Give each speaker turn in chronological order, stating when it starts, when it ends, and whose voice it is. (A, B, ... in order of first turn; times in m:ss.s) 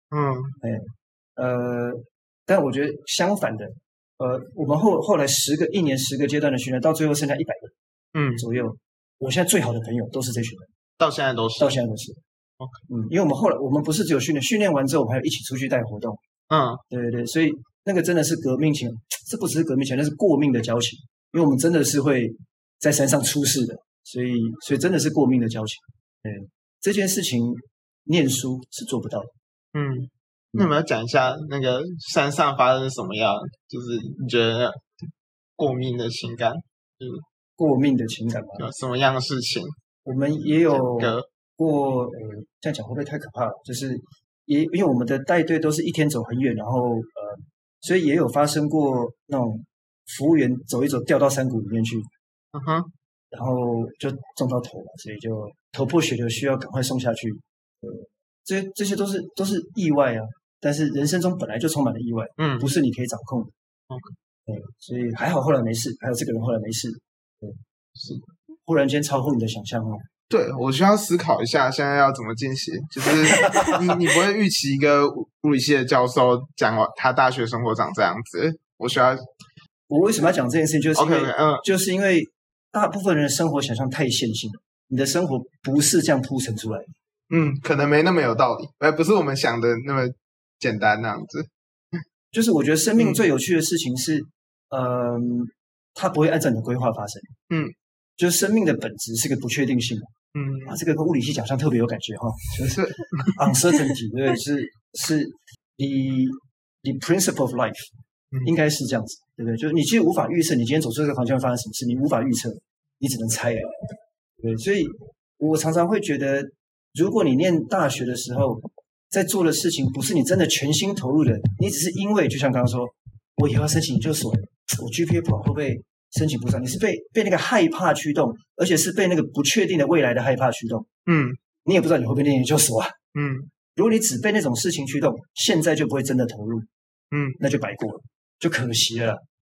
0:00.1-0:00.6 A
0:00.6-0:07.7 B
0:08.1-0:08.4 A
0:08.4-0:10.7 B
0:11.0-0:11.8 A
0:11.6-0:12.2 B
0:12.9-0:16.2 B
0:16.5-0:16.8 A
0:16.9-0:29.3 B
0:29.7-0:34.8 A
0:35.6-0:37.2 A
0:37.6-0:38.6 B
0:38.6-0:39.7 A
0:40.0-0:52.1 B
0:40.6-0:41.2 A
0:52.5-0:52.9 A
0:53.3-1:03.5 B
1:02.4-1:02.7 A
1:04.4-1:07.6 B
1:08.0-1:08.2 A
1:08.7-1:10.0 B
1:10.3-1:19.2 A
1:13.4-1:13.8 B
1:19.9-1:26.9 B
1:21.0-1:21.6 A
1:27.3-1:31.5 A
1:32.3-1:37.3 B
1:33.0-1:33.2 A
1:38.2-1:40.1 B
1:40.3-1:40.8 A
1:40.7-1:47.9 B
1:42.7-1:43.3 A
1:48.4-1:53.8 B
1:54.4-2:10.9 B
2:11.1-2:11.4 A
2:11.6-2:12.9 B
2:13.2-2:13.5 A
2:13.7-2:16.7 B
2:17.1-2:17.4 A
2:17.4-2:19.2 B